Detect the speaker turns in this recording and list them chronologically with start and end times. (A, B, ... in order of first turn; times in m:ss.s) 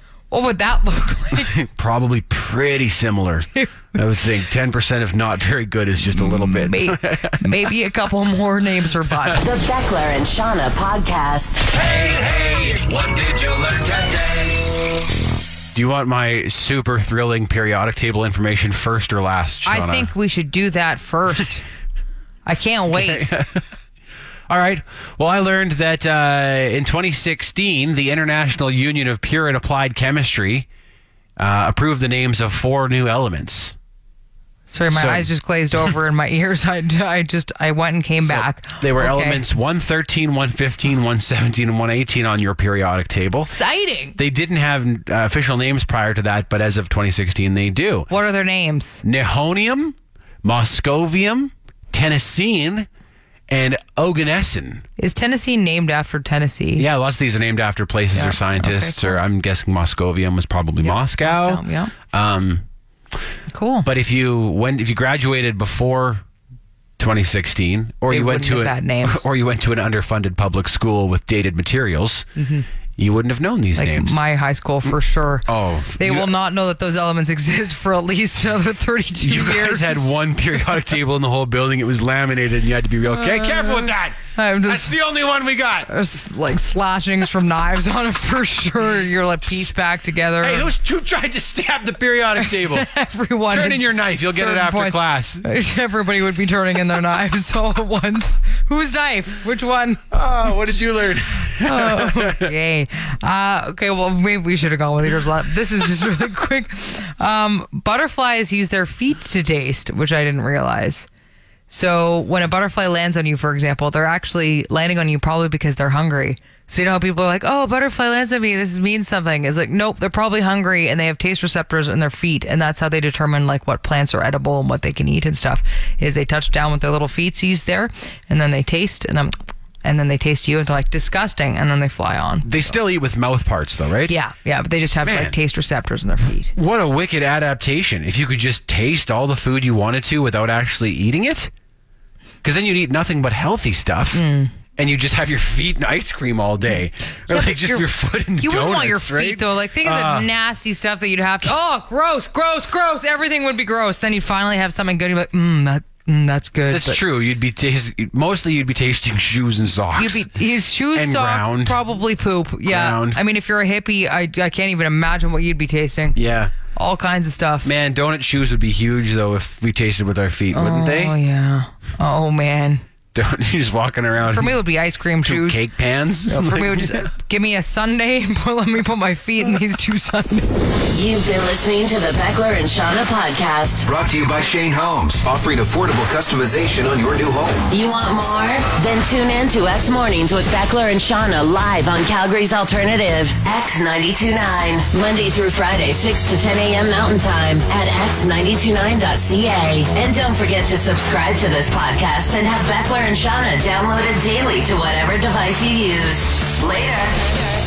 0:00.3-0:01.5 A
0:01.4-0:07.7 B
0:06.2-0:09.4 A
0:09.1-0:09.4 B
0:09.4-0:11.7 C
0:11.7-0:14.7 B
0:15.7-0:20.1 B
0:19.7-0:21.6 A
0:22.5-0:23.3 A
0:22.9-0:23.6 B
0:24.5-0:30.7 B
0:31.4-0:33.7 B
0:34.7-0:39.4 A
0:34.9-0:35.3 B
0:38.2-0:43.5 B
0:43.5-0:44.2 A
0:44.2-0:48.1 B
0:48.1-0:49.0 A
0:49.0-0:52.9 B
0:53.5-0:54.8 B
0:55.0-0:56.9 A
0:56.8-1:02.6 B
0:58.2-0:59.2 A
1:00.8-1:01.9 A
1:03.5-1:03.9 A
1:03.8-1:06.2 B
1:07.0-1:12.3 B
1:08.1-1:09.3 A
1:12.4-1:12.7 A
1:13.0-1:14.2 B
1:13.8-1:15.5 A
1:15.5-1:16.3 B
1:16.0-1:20.2 A
1:19.2-1:25.9 B
1:23.1-1:25.0 A
1:25.9-1:30.7 A
1:30.4-1:32.9 B
1:32.4-1:40.0 A
1:33.5-1:35.4 B
1:40.1-1:42.5 B
1:41.6-1:51.1 A
1:51.7-2:12.7 A
2:12.4-2:14.2 B
2:14.1-2:16.5 A
2:15.0-2:15.4 B
2:16.6-2:21.5 B
2:22.4-2:24.2 B
2:24.1-2:24.6 A
2:24.8-2:30.3 B
2:27.3-2:27.9 A
2:28.4-2:37.0 A
2:36.7-2:41.8 B
2:40.0-2:46.2 A
2:42.7-2:43.2 B
2:46.2-2:46.6 B
2:46.7-2:47.7 A
2:47.6-2:51.2 B
2:50.5-2:52.8 A
2:53.1-2:54.6 B
2:54.2-2:55.6 A
2:55.2-2:57.1 B
2:56.3-3:00.5 A
3:00.9-3:03.9 C
3:03.8-3:07.7 D
3:07.7-3:27.3 C